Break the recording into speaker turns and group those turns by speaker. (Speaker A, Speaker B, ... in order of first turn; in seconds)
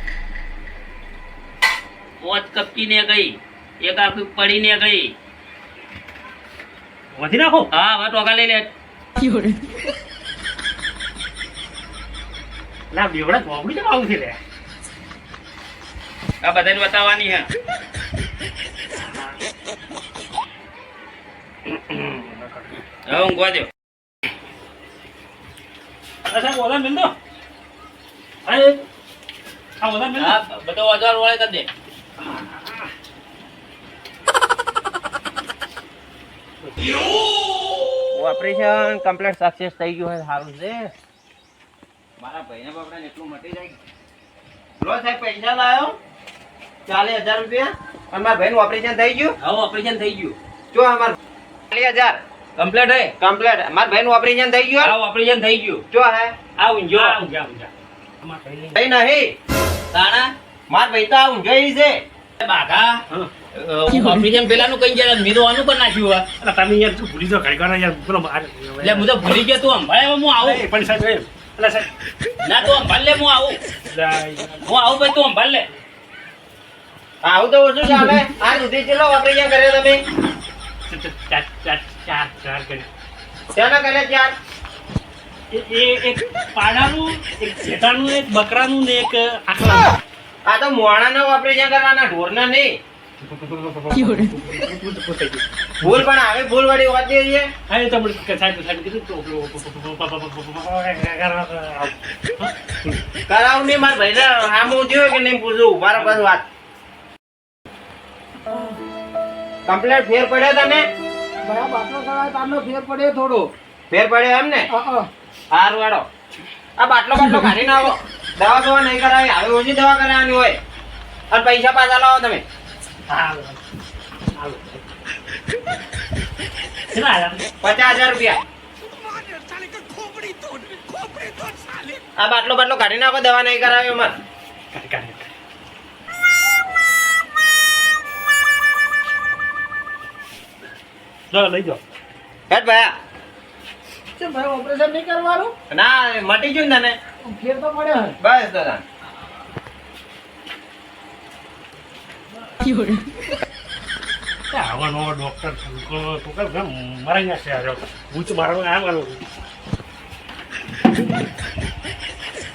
Speaker A: 2.2-5.1, 7.7-8.7, 16.4-17.5, 23.1-23.7, 30.2-31.7, 49.4-50.4, 52.6-53.1, 54.8-55.8, 56.6-57.2, 59.9-60.3, 62.4-63.0, 63.5-66.2, 68.8-70.6, 72.4-73.6, 74.6-75.7
Speaker B: 7.1-7.7, 12.9-14.4, 21.8-22.7, 26.2-27.1, 28.4-28.8, 29.8-30.4, 32.2-32.9, 36.6-37.0, 56.9-58.8, 66.4-69.1, 70.4-71.9, 73.9-74.7, 80.9-82.9, 85.5-89.9, 93.2-96.0, 97.7-103.0, 106.0-106.2, 123.1-123.6, 124.3-124.8, 126.9-127.4, 129.6-130.6, 134.7-135.3, 141.3-141.8, 154.5-159.3
Speaker C: 38.1-40.9, 42.2-43.8, 44.8-46.0, 46.9-49.4, 50.7-51.2, 51.7-52.2, 53.2-54.9, 55.9-56.4, 58.8-59.3, 60.7-62.0, 77.2-80.0, 83.5-84.3, 90.5-92.8, 95.8-97.5, 103.3-106.4, 109.7-110.9, 113.9-114.7, 115.5-116.0, 116.8-120.6, 121.3-122.4, 127.6-128.4, 132.2-134.2, 142.5-142.9, 145.7-147.0, 148.2-148.8
Speaker D: 111.4-113.5, 114.7-115.1, 144.2-145.5, 147.2-148.2